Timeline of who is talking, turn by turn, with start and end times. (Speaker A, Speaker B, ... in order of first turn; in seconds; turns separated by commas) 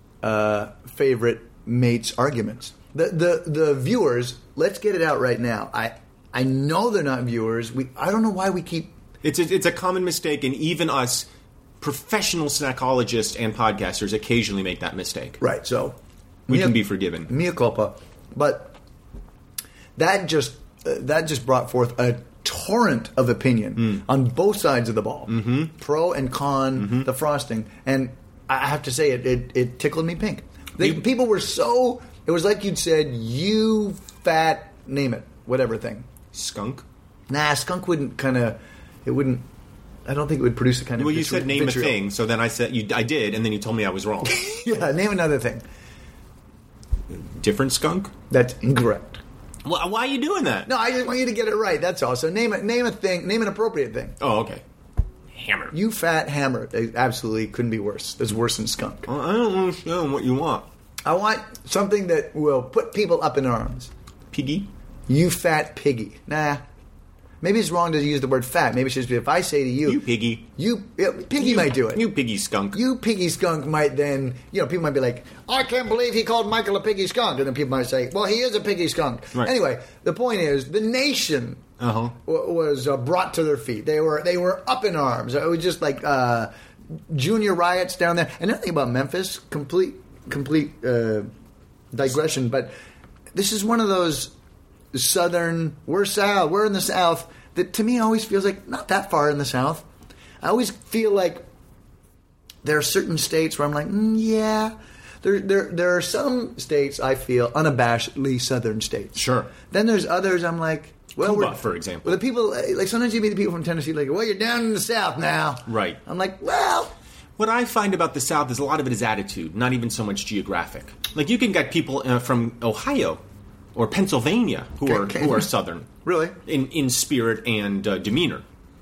Speaker A: 0.2-8.9, Speaker B: 9.2-11.3, Speaker B: 11.8-15.4, Speaker A: 15.4-16.0, Speaker B: 16.5-17.3, Speaker A: 16.5-18.8, Speaker A: 20.0-36.1, Speaker B: 25.3-25.7, Speaker B: 26.8-27.1, Speaker B: 36.3-36.8, Speaker A: 37.3-39.4, Speaker A: 40.0-42.0, Speaker B: 41.0-44.4, Speaker A: 44.2-45.6, Speaker B: 47.1-48.1, Speaker A: 48.3-49.2, Speaker B: 49.6-50.7, Speaker A: 50.6-54.2, Speaker B: 54.2-54.6, Speaker B: 55.3-55.7, Speaker A: 55.7-59.1, Speaker B: 59.1-60.7, Speaker A: 61.0-63.9, Speaker B: 64.3-64.7, Speaker A: 65.1-66.6, Speaker A: 67.4-70.0, Speaker B: 69.8-70.4, Speaker A: 70.5-72.0, Speaker B: 71.4-72.8, Speaker A: 72.7-81.6, Speaker B: 81.8-82.1, Speaker A: 82.2-91.3, Speaker A: 91.9-92.7, Speaker A: 93.3-94.3, Speaker A: 94.9-99.8, Speaker A: 100.4-101.4, Speaker A: 102.6-116.9, Speaker B: 109.2-109.5, Speaker B: 111.2-112.2, Speaker B: 115.7-116.0, Speaker B: 117.4-123.2, Speaker B: 123.7-125.9, Speaker A: 124.8-125.5, Speaker A: 126.0-126.4, Speaker B: 126.5-128.4